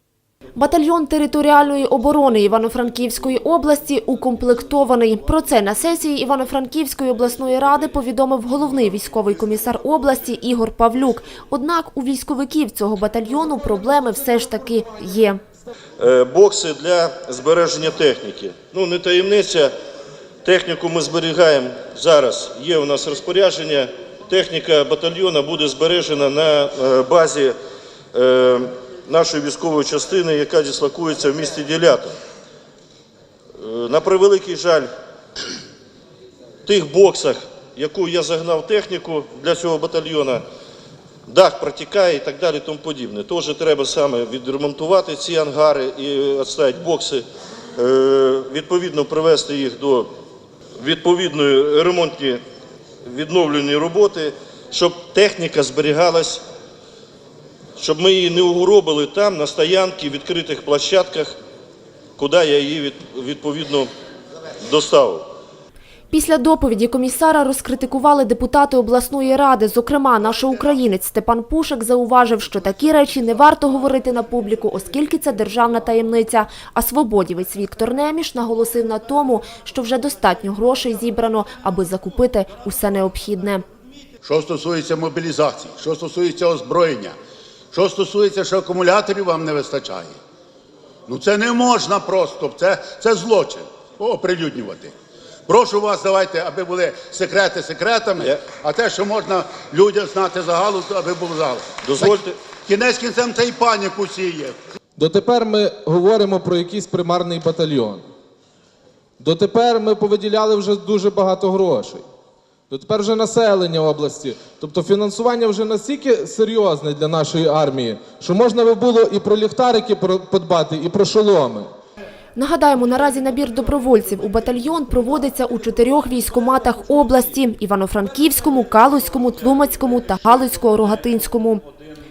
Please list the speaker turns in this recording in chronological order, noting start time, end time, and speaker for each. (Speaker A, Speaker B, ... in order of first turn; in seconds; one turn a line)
Speaker A: 0.6-15.4
Speaker B: 16.0-19.7
Speaker B: 20.4-27.5
Speaker B: 28.1-32.1
Speaker B: 33.6-34.9
Speaker B: 36.7-40.4
Speaker B: 41.3-47.2
Speaker B: 47.8-50.1
Speaker B: 50.8-52.4
Speaker B: 53.0-56.4
Speaker B: 57.8-61.4
Speaker B: 62.2-63.9
Speaker B: 64.7-65.3
Speaker A: 66.1-83.7
Speaker C: 84.2-87.2
Speaker C: 87.7-90.2
Speaker C: 91.1-94.9
Speaker C: 95.5-104.5
Speaker B: 101.8-102.4
Speaker D: 105.0-108.0
Speaker D: 109.2-112.0
Speaker D: 112.7-121.7
Speaker A: 122.4-131.6